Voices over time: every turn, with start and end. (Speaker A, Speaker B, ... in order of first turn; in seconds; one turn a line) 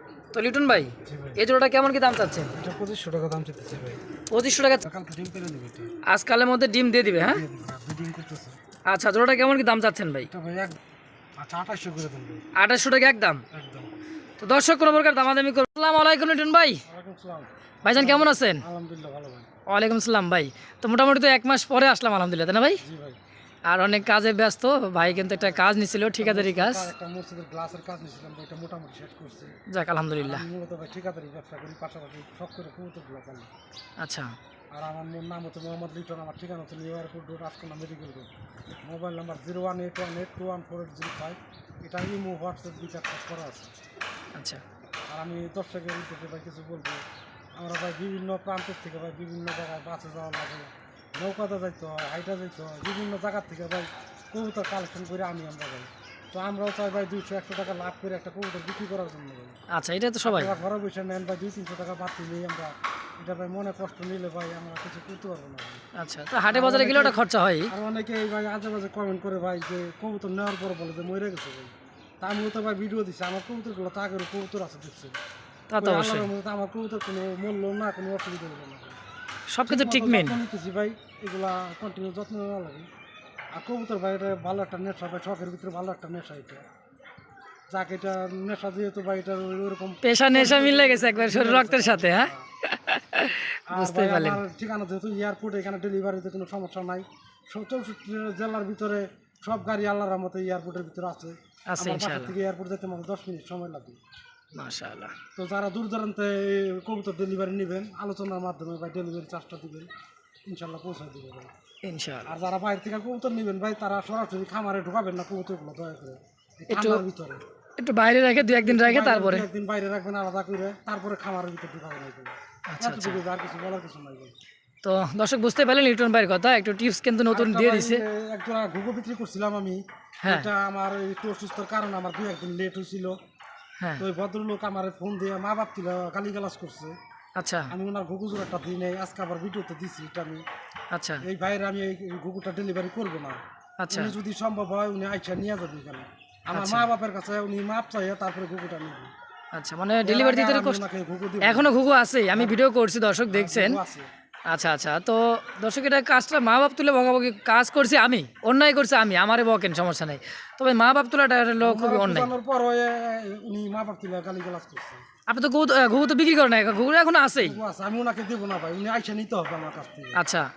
Speaker A: 0.3-2.5
Speaker B: 1.0-1.4
Speaker B: 2.5-4.0
Speaker A: 4.3-4.8
Speaker B: 4.8-5.9
Speaker A: 6.1-7.4
Speaker B: 7.2-8.6
Speaker A: 8.9-10.3
Speaker B: 10.3-10.8
Speaker B: 11.4-12.4
Speaker A: 12.6-13.4
Speaker B: 13.5-13.9
Speaker A: 14.4-16.8
Speaker B: 16.8-19.5
Speaker A: 17.8-18.6
Speaker A: 19.7-22.8
Speaker B: 22.8-23.2
Speaker A: 23.7-26.9
Speaker B: 25.0-29.5
Speaker A: 29.7-30.4
Speaker B: 30.2-33.5
Speaker A: 34.0-34.4
Speaker B: 34.7-38.3
Speaker B: 38.8-43.7
Speaker A: 44.3-44.6
Speaker B: 45.1-47.0
Speaker B: 47.5-59.5
Speaker A: 59.7-60.6
Speaker B: 60.2-65.8
Speaker A: 65.9-67.7
Speaker B: 66.5-75.2
Speaker A: 75.7-76.3
Speaker B: 75.8-79.0
Speaker A: 79.5-80.4
Speaker B: 79.7-82.9
Speaker B: 83.5-86.6
Speaker B: 87.7-92.5
Speaker A: 90.0-94.4
Speaker B: 93.7-104.0
Speaker A: 101.7-102.3
Speaker A: 104.5-105.1
Speaker B: 105.3-109.9
Speaker B: 110.5-111.5
Speaker A: 111.8-112.3
Speaker B: 112.2-117.4
Speaker A: 116.7-117.0
Speaker A: 117.8-119.5
Speaker B: 118.4-124.3
Speaker A: 122.7-123.2
Speaker A: 124.8-128.0
Speaker B: 127.3-133.2
Speaker A: 130.2-130.5
Speaker B: 134.0-137.0
Speaker A: 137.4-137.7
Speaker B: 137.7-140.4
Speaker A: 140.9-141.2
Speaker B: 141.2-149.1
Speaker A: 143.8-144.1
Speaker A: 146.5-146.9
Speaker A: 149.5-150.8
Speaker B: 150.0-151.7
Speaker A: 151.4-153.8
Speaker B: 152.3-152.6
Speaker B: 153.3-154.1
Speaker A: 154.5-162.3
Speaker B: 161.6-165.0
Speaker A: 165.3-167.6
Speaker B: 167.4-170.2
Speaker A: 170.1-170.5